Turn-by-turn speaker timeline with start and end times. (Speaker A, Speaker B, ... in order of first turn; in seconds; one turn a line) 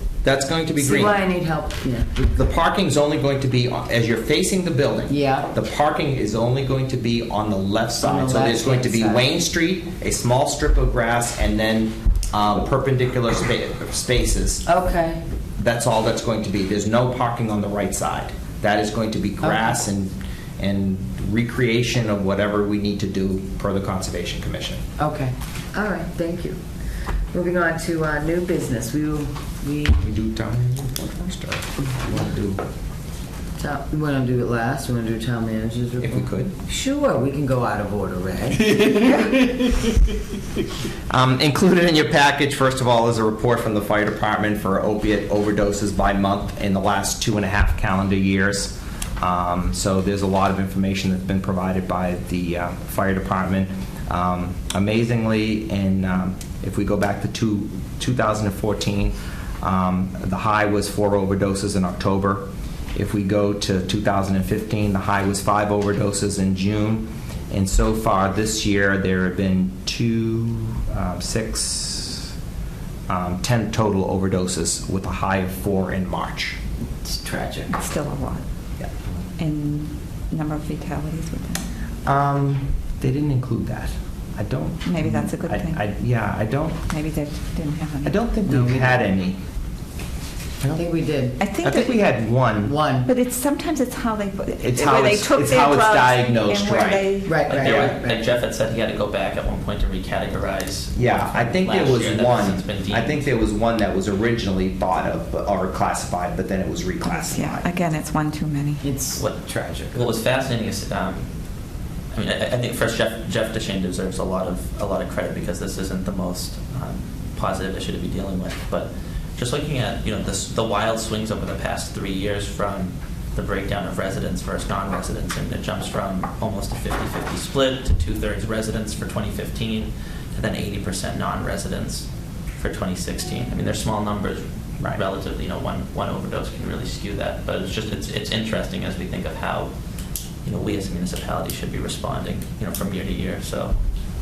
Speaker A: 0.2-1.2
Speaker B: 0.8-2.2
Speaker A: 2.2-14.7
Speaker B: 5.1-5.5
Speaker B: 8.0-9.3
Speaker B: 14.7-15.2
Speaker A: 15.6-24.8
Speaker B: 19.4-19.7
Speaker B: 25.0-26.6
Speaker B: 27.3-30.0
Speaker A: 30.0-32.6
Speaker B: 33.6-39.4
Speaker A: 36.0-36.5
Speaker A: 41.1-72.3
Speaker A: 73.1-76.6
Speaker B: 77.0-77.7
Speaker C: 77.7-78.4
Speaker C: 79.4-81.7
Speaker A: 82.0-86.8
Speaker C: 84.8-85.8
Speaker C: 86.9-88.2
Speaker A: 88.0-89.4
Speaker B: 90.6-91.4
Speaker C: 91.4-92.1
Speaker A: 91.6-92.8
Speaker B: 92.6-93.1
Speaker C: 93.1-97.6
Speaker A: 94.6-97.1
Speaker B: 97.2-98.3
Speaker D: 97.5-103.3
Speaker A: 101.0-107.7
Speaker C: 107.1-108.9
Speaker B: 108.8-110.1
Speaker D: 109.2-109.4
Speaker D: 109.9-111.3
Speaker D: 112.1-132.1
Speaker D: 132.6-139.7
Speaker D: 140.4-143.8